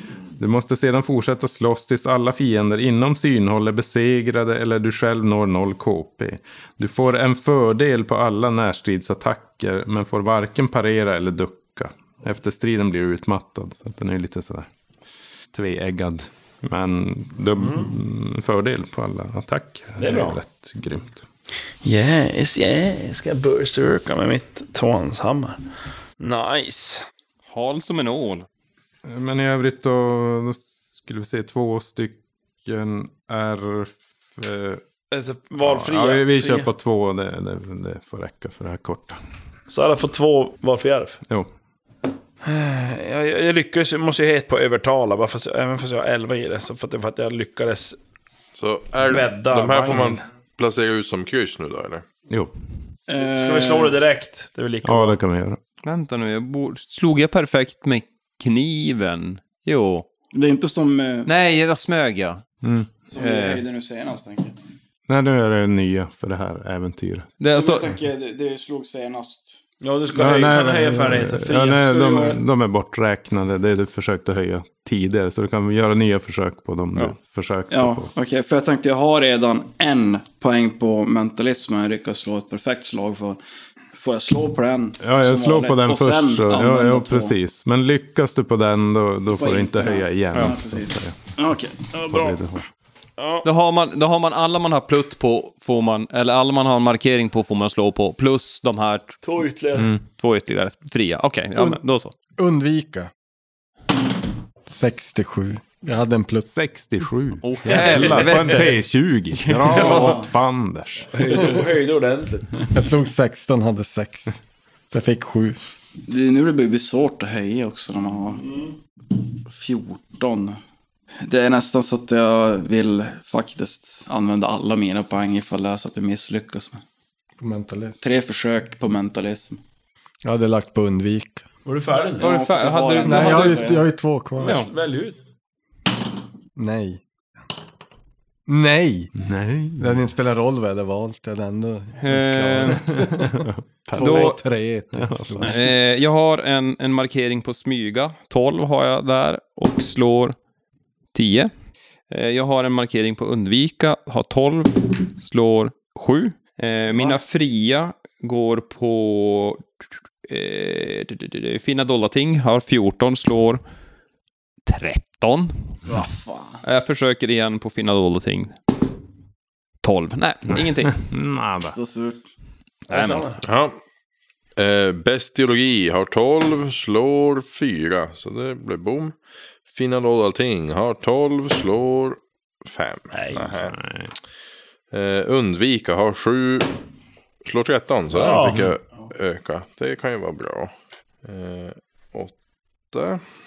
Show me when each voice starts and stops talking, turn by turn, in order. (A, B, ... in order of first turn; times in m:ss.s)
0:00.4-0:14.7 A
0:15.5-0:21.2 A
0:17.6-0:17.9 B
0:20.0-0:20.4 B
0:21.8-0:25.6 B
0:26.2-0:27.0 B
0:27.5-0:28.5 C
0:29.0-0:34.8 A
0:35.1-0:36.7 B
0:35.6-0:39.2 A
0:39.7-0:41.2 B
0:42.4-0:48.0 B
0:48.5-0:52.0 D
0:49.0-0:50.2 B
0:53.1-0:54.0 E
0:53.2-0:55.2 B
0:54.8-0:55.6 A
0:55.8-1:00.1 C
1:00.3-1:01.3 E
1:01.2-1:02.4 C
1:02.6-1:02.9 A
1:03.1-1:04.5 E
1:03.2-1:03.6 C
1:05.1-1:07.3 A
1:07.4-1:07.9 C
1:07.5-1:09.6 E
1:09.8-1:11.9 B
1:10.1-1:18.1 A
1:11.8-1:12.4 E
1:17.7-1:23.4 E
1:23.9-1:27.3 E
1:25.0-1:31.2 A
1:29.3-1:32.4 E
1:32.1-1:32.6 A
1:33.2-1:33.4 B
1:33.4-1:39.2 C
1:39.2-1:39.9 B
1:39.7-1:40.0 A
1:40.0-1:42.1 C
1:41.5-1:41.8 F
1:42.4-1:43.1 F
1:44.6-1:46.5 F
1:46.5-1:51.1 A
1:47.4-1:48.7 C
1:49.4-1:50.2 C
1:51.1-1:52.7 B
1:52.7-1:55.6 F
1:56.1-1:58.4 E
1:58.4-1:58.7 B
1:59.5-2:00.6 E
2:01.2-2:06.8 E
2:07.4-2:08.1 F
2:08.0-2:09.6 E
2:10.2-2:11.4 F
2:11.6-2:12.3 B
2:12.2-2:13.7 C
2:12.2-2:13.8 E
2:13.0-2:14.6 F
2:14.4-2:14.7 C
2:14.4-2:15.2 B
2:16.6-2:17.0 F
2:18.5-2:19.1 F
2:19.2-2:20.0 A
2:19.8-2:25.7 F
2:22.0-2:22.8 C
2:22.8-2:24.4 A
2:24.0-2:24.3 C
2:24.9-2:25.6 A
2:25.4-2:30.4 C
2:31.1-2:31.5 C
2:32.1-2:39.6 C
2:40.3-2:43.6 C
2:44.7-2:45.8 C
2:45.9-2:46.6 E
2:46.6-2:48.5 C
2:49.8-2:51.0 C
2:50.5-2:51.7 A
2:51.7-2:52.3 E
2:52.9-2:53.4 B
2:52.9-2:53.3 C
2:53.4-2:53.8 D
2:54.6-2:59.2 D
2:59.7-3:03.7 D
3:03.1-3:03.5 B
3:03.7-3:04.1 A
3:04.9-3:06.7 D
3:07.4-3:10.7 D
3:08.1-3:08.7 B
3:08.4-3:08.7 A
3:11.2-3:12.3 D
3:12.9-3:13.2 D